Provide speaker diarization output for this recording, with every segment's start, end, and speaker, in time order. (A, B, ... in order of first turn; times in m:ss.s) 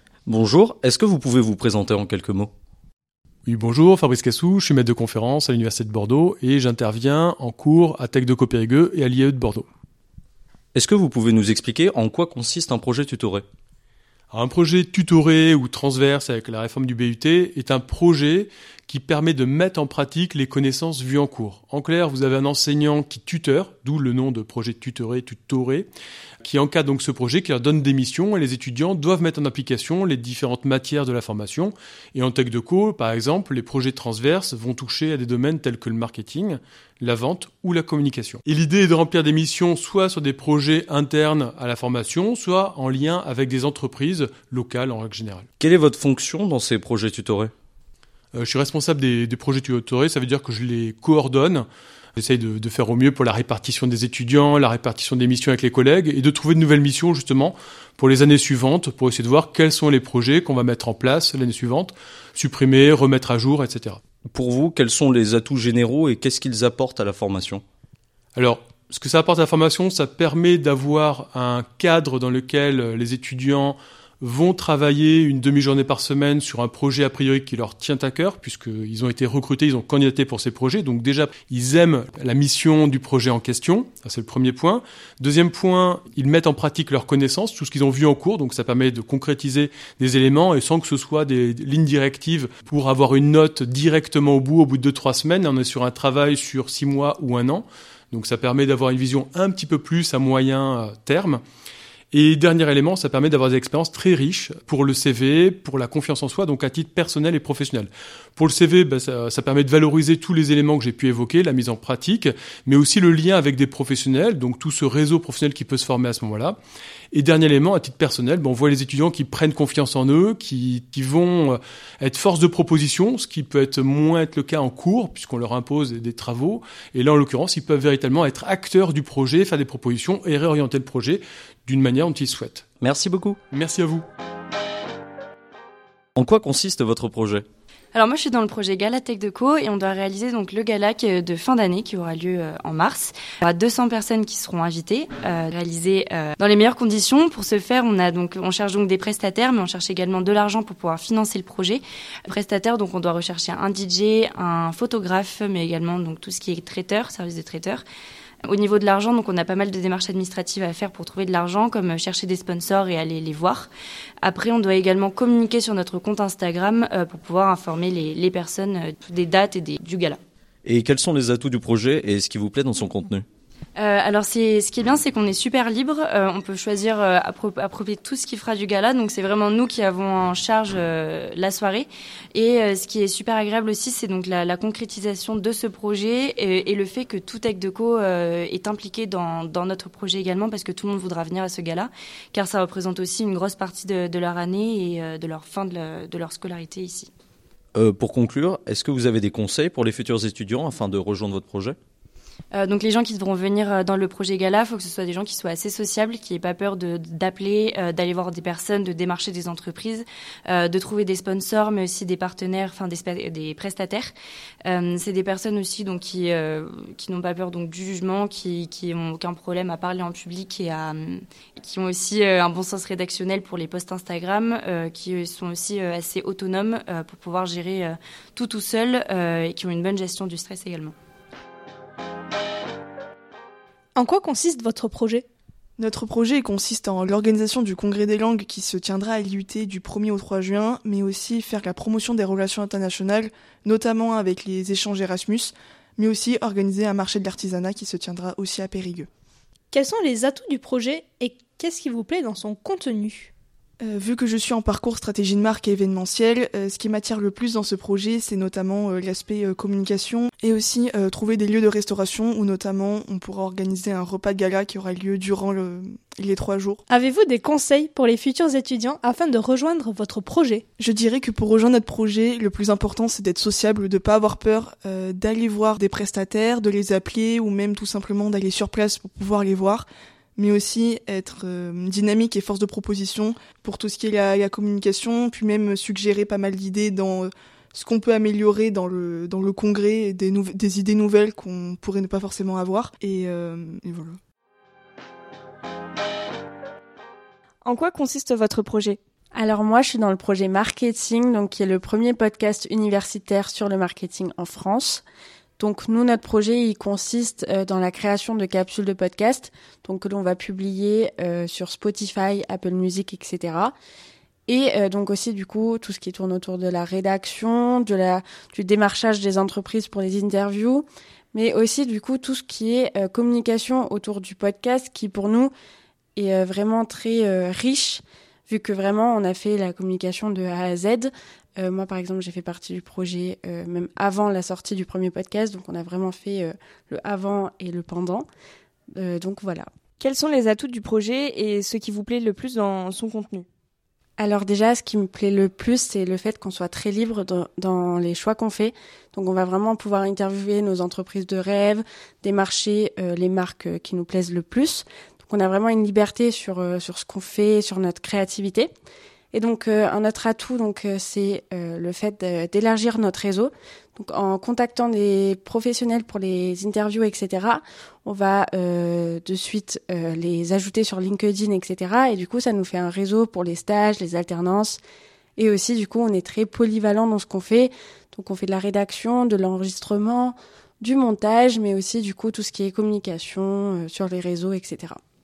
0:00.2-0:02.5 A
0:03.4-0:09.6 B
0:10.7-0:13.4 A
0:14.3-0:25.9 B
0:26.4-0:45.5 B
0:45.6-0:47.5 A
0:48.3-0:51.6 B
0:52.2-1:04.0 B
1:04.3-1:07.6 A
1:08.4-1:41.4 B
1:42.1-1:56.6 B
1:57.1-2:12.6 B
2:12.8-2:13.4 A
2:13.5-2:14.0 B
2:16.2-2:17.5 A
2:17.9-2:37.8 C
2:38.5-2:43.7 C
2:44.2-2:50.2 C
2:50.6-2:53.2 A
2:53.8-3:17.1 C
3:17.7-3:21.8 A
3:22.5-3:34.1 C
3:34.6-3:50.9 C
3:54.0-3:55.2 D
3:55.8-4:09.1 E
4:09.7-4:13.3 D
4:13.8-4:26.8 E
4:26.9-4:30.6 D
4:30.8-4:54.2 E
4:57.6-4:59.0 F
4:59.3-5:05.0 G
5:05.6-5:13.7 G
5:14.5-5:25.5 G
5:26.2-5:38.3 G
5:38.9-5:39.7 G
5:40.0-5:43.4 F
5:44.2-5:58.7 G
5:59.3-6:14.8 G
6:15.4-6:25.0 G